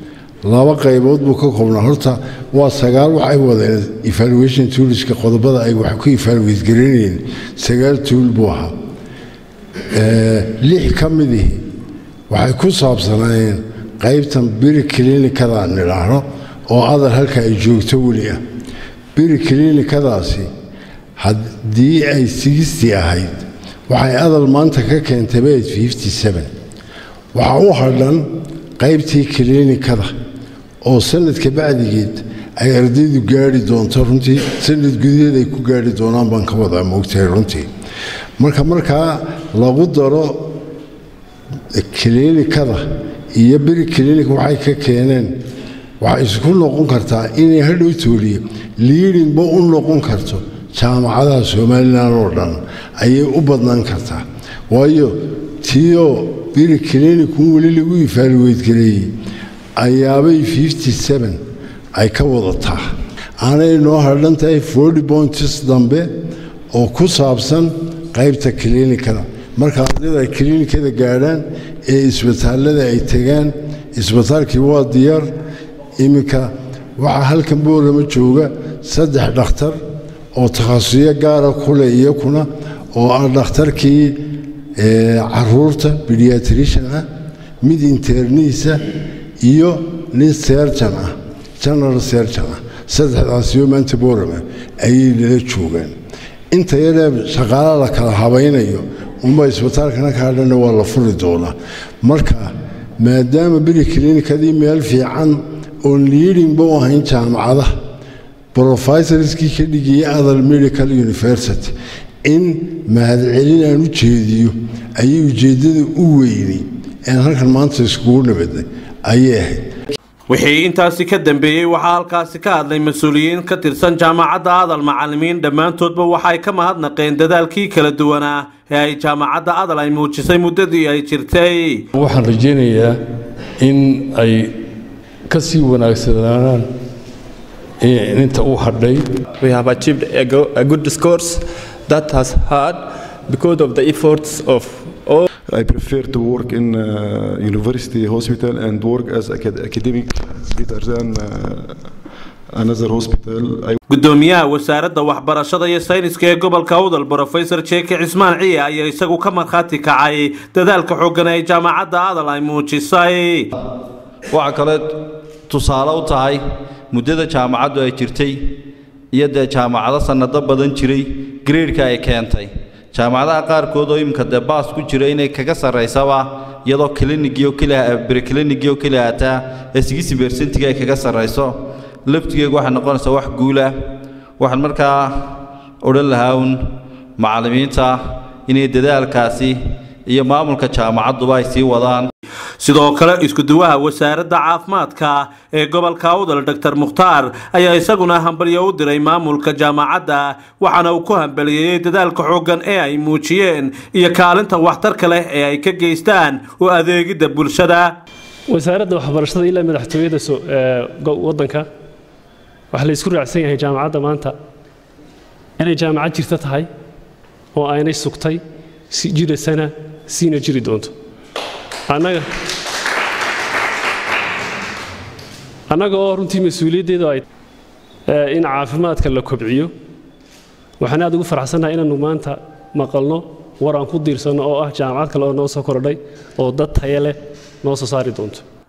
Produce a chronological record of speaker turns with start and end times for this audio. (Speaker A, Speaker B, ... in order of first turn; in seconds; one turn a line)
Speaker A: 0.4-8.7
Speaker A: 9.9-11.6
Speaker A: 12.3-18.4
Speaker A: 19.1-20.5
Speaker A: 21.2-26.5
Speaker A: 27.3-30.1
Speaker A: 30.8-37.7
Speaker A: 38.4-40.5
Speaker A: 41.7-45.4
Speaker A: 46.0-59.1
Speaker A: 59.8-61.4
Speaker A: 61.9-62.9
Speaker A: 63.4-66.1
Speaker A: 66.7-75.3
Speaker A: 76.0-79.8
Speaker A: 80.3-84.2
Speaker A: 84.8-87.1
Speaker A: 87.6-88.8
Speaker A: 89.4-95.9
Speaker A: 96.5-107.7
Speaker A: 108.5-111.7
Speaker A: 112.2-119.6
Speaker B: 120.3-131.8
Speaker C: 131.9-133.0
Speaker C: 133.6-134.5
Speaker C: 135.3-136.7
Speaker C: 137.8-139.2
Speaker D: 139.3-145.2
Speaker E: 145.5-151.9
Speaker E: 152.5-153.8
Speaker B: 153.9-163.5
Speaker F: 164.3-164.9
Speaker F: 165.5-168.4
Speaker F: 169.1-181.5
Speaker F: 182.1-183.7
Speaker F: 184.4-185.3
Speaker F: 185.8-186.6
Speaker F: 187.2-192.1
Speaker B: 192.6-207.9
Speaker G: 208.5-211.7
Speaker G: 212.7-214.3
Speaker G: 215.6-216.7
Speaker G: 217.5-220.9
Speaker G: 221.9-222.3
Speaker G: 225.7-227.2
Speaker G: 228.1-229.7
Speaker G: 230.8-238.4